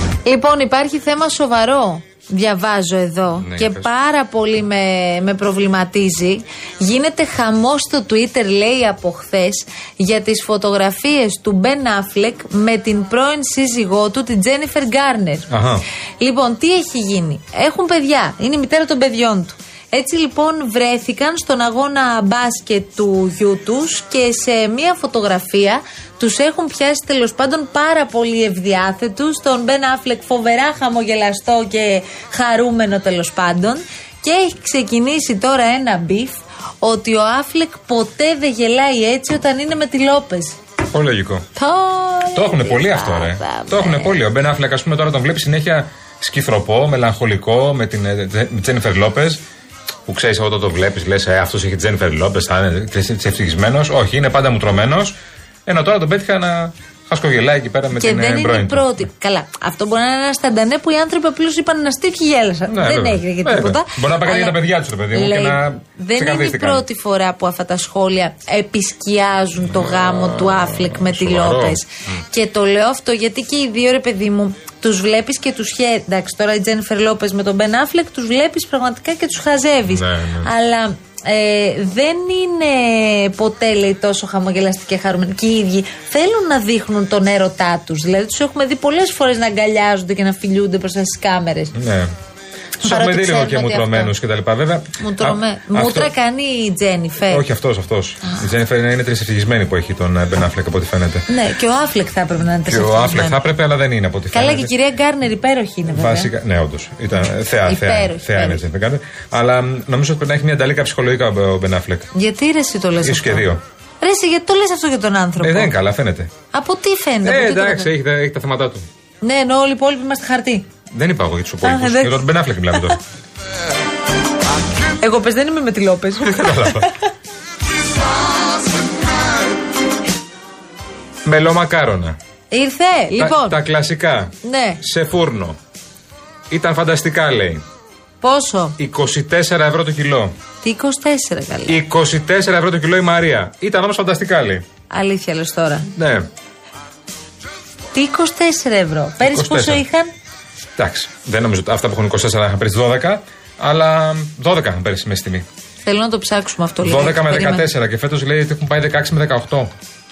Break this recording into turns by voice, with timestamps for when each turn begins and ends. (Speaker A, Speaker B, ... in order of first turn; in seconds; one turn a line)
Speaker A: 0.2-15.5
Speaker B: 3.4-3.9
Speaker B: 15.5-15.8
Speaker A: 16.2-40.6
Speaker B: 40.9-41.4
Speaker A: 41.5-44.2
Speaker B: 42.4-49.4
Speaker B: 50.1-58.9
Speaker A: 57.9-64.6
Speaker B: 62.7-66.8
Speaker A: 65.1-91.7
Speaker B: 69.7-71.8
Speaker B: 79.9-80.5
Speaker B: 91.7-92.1
Speaker B: 92.8-96.1
Speaker A: 92.8-94.1
Speaker A: 95.0-97.4
Speaker B: 97.2-101.2
Speaker A: 101.3-103.4
Speaker B: 102.7-104.7
Speaker A: 104.3-106.3
Speaker B: 105.9-112.1
Speaker A: 107.7-108.6
Speaker A: 112.1-113.5
Speaker B: 113.0-113.6
Speaker A: 114.0-115.7
Speaker B: 115.4-116.3
Speaker A: 116.5-117.9
Speaker B: 117.2-118.9
Speaker A: 119.2-120.7
Speaker B: 120.9-123.0
Speaker A: 121.6-122.8
Speaker A: 124.9-126.9
Speaker B: 126.2-126.9
Speaker B: 131.2-132.2
Speaker A: 132.5-133.6
Speaker B: 133.2-135.6
Speaker A: 134.4-134.8
Speaker B: 136.5-137.6
Speaker A: 138.2-138.8
Speaker B: 138.8-140.3
Speaker A: 140.6-141.8
Speaker B: 141.7-144.6
Speaker A: 144.9-145.9
Speaker B: 145.9-146.3
Speaker A: 147.9-150.1
Speaker B: 149.2-149.8
Speaker B: 150.8-155.4
Speaker A: 155.8-157.7
Speaker B: 156.8-159.7